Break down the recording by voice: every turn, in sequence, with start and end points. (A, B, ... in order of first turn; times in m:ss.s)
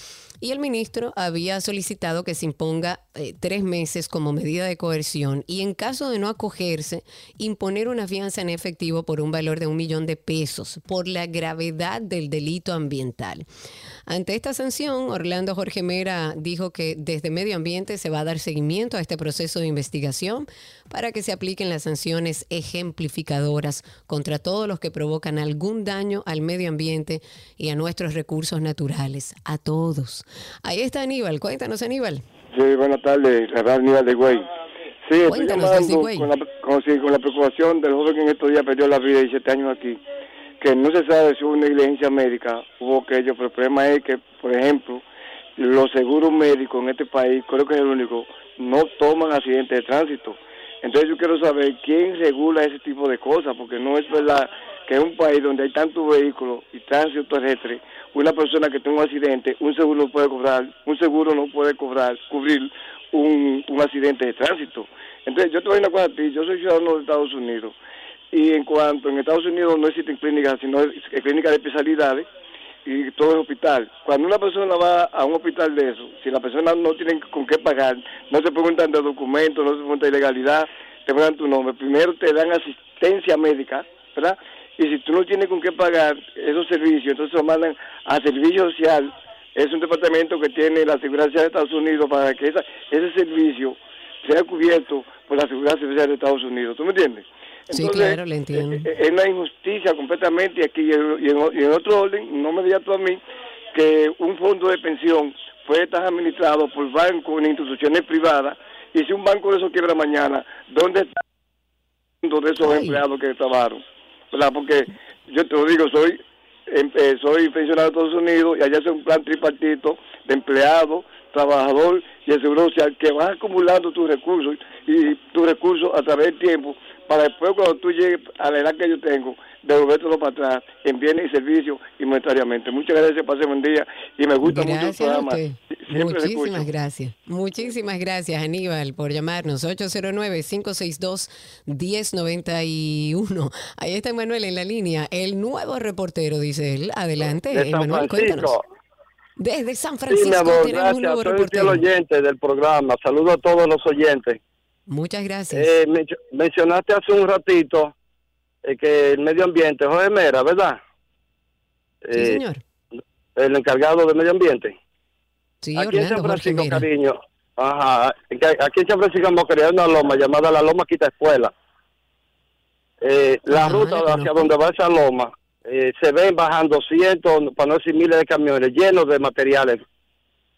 0:00.4-0:13.4 A
0:14.1-0:32.2 A
0:32.5-0:34.5 B
0:35.1-0:40.0 B
0:35.3-0:36.3 A
0:40.6-0:45.0 B
0:45.6-1:07.7 B
1:08.3-1:12.3 B
1:12.9-1:43.2 B
1:37.7-1:38.8 A
1:43.8-1:51.1 B
1:52.2-1:56.2 B
1:52.6-1:53.0 A
1:56.7-2:16.7 B
2:14.4-2:28.6 A
2:27.5-2:28.6 C
2:29.4-2:31.8 A
2:30.1-2:34.4 C
2:34.9-2:35.7 A
2:35.5-2:37.9 C
2:38.6-2:40.8 C
2:42.1-2:42.4 C
2:42.2-2:42.6 A
2:43.4-2:44.8 C
2:45.6-2:46.9 A
2:45.8-2:51.5 C
2:53.0-2:59.8 C
2:53.5-2:54.4 A